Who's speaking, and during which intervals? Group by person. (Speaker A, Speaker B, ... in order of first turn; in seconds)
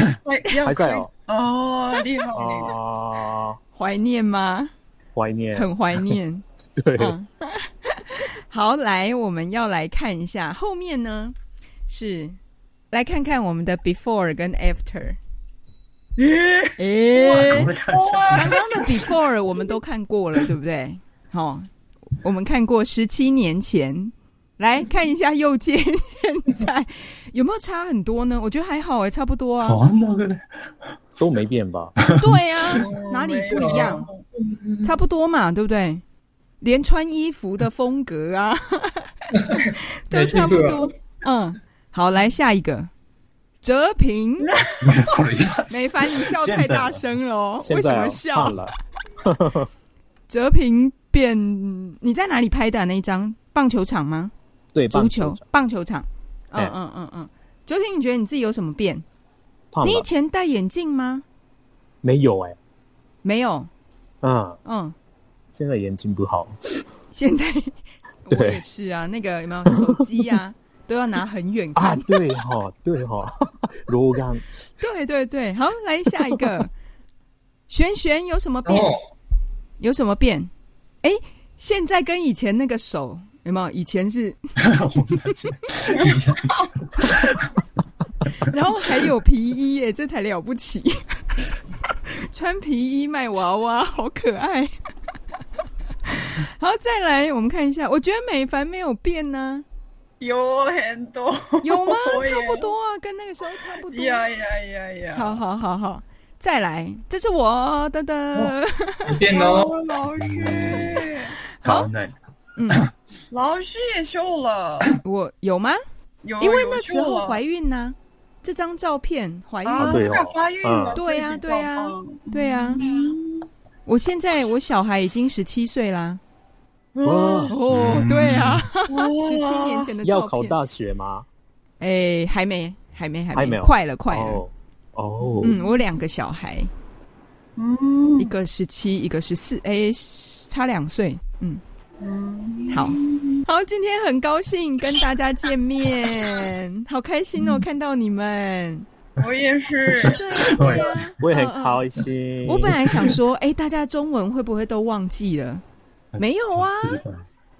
Speaker A: 0.2-2.7, 16.2-19.0, 32.8-34.2, 44.4-45.2, 100.2-102.7, 103.9-105.4, 109.3-111.3, 113.3-115.0, 116.2-117.4, 119.6-123.5, 126.9-127.6, 128.9-129.9, 137.6-138.3, 142.0-143.4, 149.2-151.0
Speaker B: 0.6-1.1, 2.3-3.6, 5.1-6.2, 6.8-7.2, 31.2-32.0, 47.6-49.7, 54.7-55.4, 59.7-60.1, 62.0-62.6, 64.2-64.6, 65.5-66.8, 68.3-68.6, 69.7-70.3, 71.8-74.5, 119.8-121.0, 127.0-127.5, 130.0-131.2, 133.3-135.6, 151.2-153.0
Speaker C: 3.7-4.7, 5.5-6.4, 7.0-11.3, 11.9-12.4, 12.9-15.2, 16.8-17.7, 18.3-21.7, 22.2-29.8, 32.1-34.1, 34.8-36.0, 36.6-42.9, 43.6-44.5, 45.7-48.6, 50.3-54.3, 54.9-59.0, 59.8-61.2, 63.2-63.7, 64.6-64.9, 67.1-72.2, 74.8-76.7, 77.7-78.9, 79.8-80.5, 81.0-84.4, 88.5-91.0, 92.2-94.7, 96.1-99.6, 101.6-104.2, 105.1-109.2, 111.6-111.9, 112.5-112.8, 115.0-115.8, 116.4-120.2, 121.0-122.9, 123.8-126.2, 127.5-130.6, 131.8-134.4, 135.4-136.7, 138.2-141.6, 142.7-148.8, 150.0-151.8, 152.4-155.6, 156.2-157.0
Speaker D: 17.3-18.9, 29.6-30.6, 44.8-47.0, 84.6-87.5, 110.2-111.0, 111.6-112.1, 127.7-128.6, 149.9-151.0, 156.8-157.2
Speaker E: 33.5-34.9, 39.4-40.9, 78.7-79.0, 108.3-109.8